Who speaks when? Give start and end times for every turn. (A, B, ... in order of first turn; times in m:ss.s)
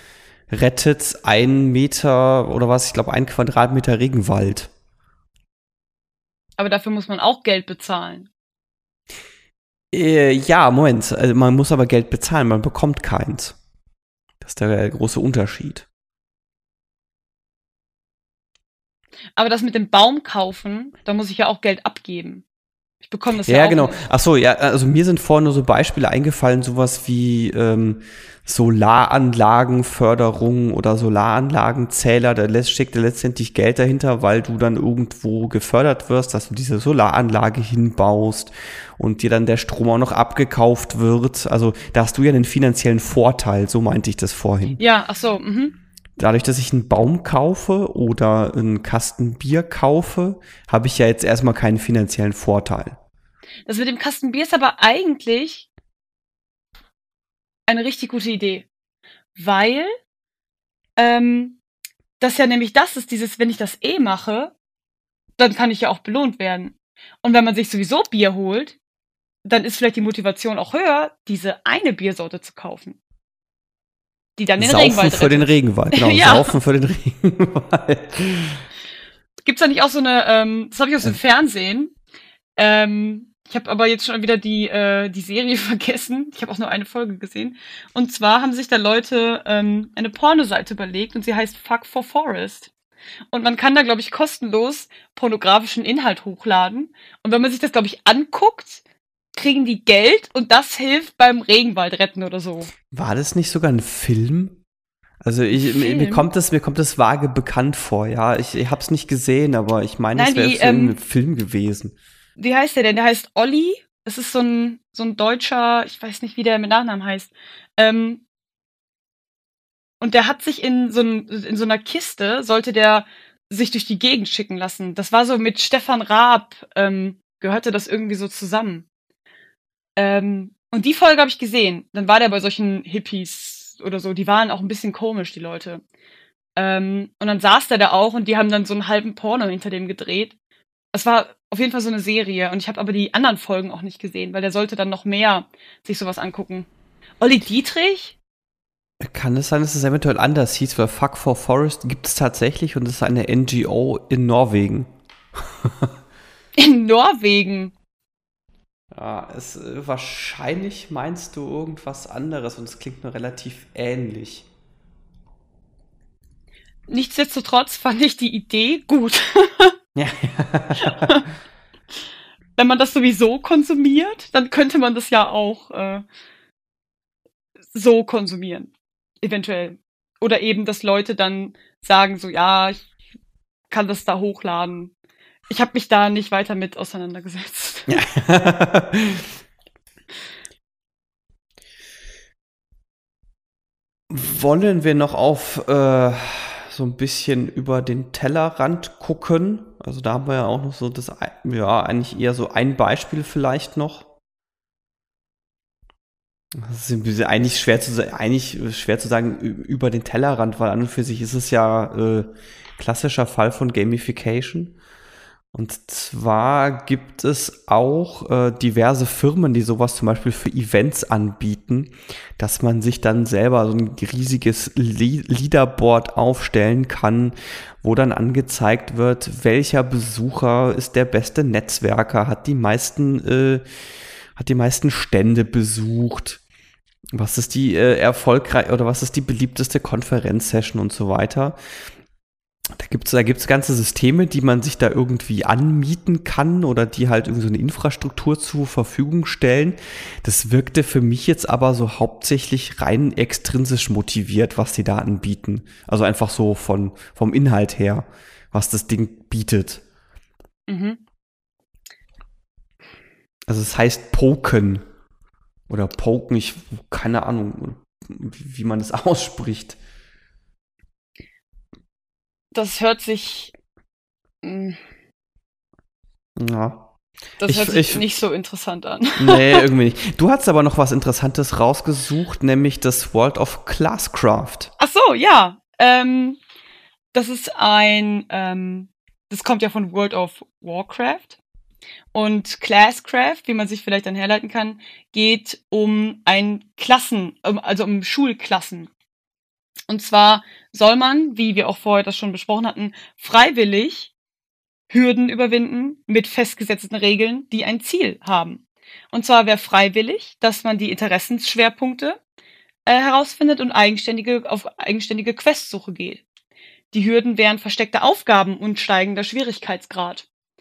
0:00.5-0:04.7 A
0:06.6-0:08.3 B
0:09.9-0:13.6 A
0:14.4-0:15.9 A
0:19.4-0:22.4 B
0:23.0-0:24.0 B
0:23.4-0:44.8 A
0:44.8-0:45.8 B
0:46.2-0:53.0 A
0:53.7-0:55.7 B
0:57.7-0:58.7 B
0:59.4-0:59.9 B
1:01.0-1:01.6 B
1:02.2-1:04.5 B
1:05.4-1:08.8 B
1:09.4-1:13.0 B
1:14.4-1:16.5 B
1:14.6-1:18.6 A
1:19.4-1:21.9 B
1:22.6-1:32.7 B
1:33.3-1:38.8 B
1:39.4-1:42.7 B
1:42.9-1:44.6 A
1:45.2-1:52.0 A
1:45.5-1:46.3 B
1:50.2-1:51.0 B
1:52.4-1:58.2 B
2:00.0-2:08.9 B
2:10.0-2:15.8 B
2:16.6-2:20.4 B
2:20.9-2:26.7 B
2:27.2-2:28.2 B
2:29.0-2:35.9 A
2:36.6-2:37.7 B
2:38.9-2:44.5 A
2:46.9-2:49.8 B
2:50.0-2:51.1 A
2:50.8-2:51.2 B
2:52.6-2:56.0 B
2:57.7-2:58.7 B
2:59.2-3:02.9 B
3:03.7-3:04.9 B
3:05.5-3:07.9 B
3:07.9-3:09.2 A
3:14.1-3:24.1 A
3:26.6-3:34.8 A
3:35.5-3:53.6 A
3:54.4-3:56.4 A
3:57.1-4:01.6 A
4:02.7-4:19.8 A
4:20.7-4:21.0 B
4:23.5-4:24.8 A
4:25.7-4:29.8 A
4:32.5-4:33.5 B
4:34.4-4:34.8 B
4:36.4-4:36.8 A
4:37.4-4:39.6 B
4:37.4-4:38.0 A
4:39.2-4:44.7 A
4:44.8-4:46.4 B
4:47.1-4:51.4 B
4:52.1-4:58.9 B
4:59.9-5:04.1 B
5:04.9-5:08.6 B
5:09.1-5:12.2 B
5:12.9-5:16.2 B
5:16.9-5:20.3 B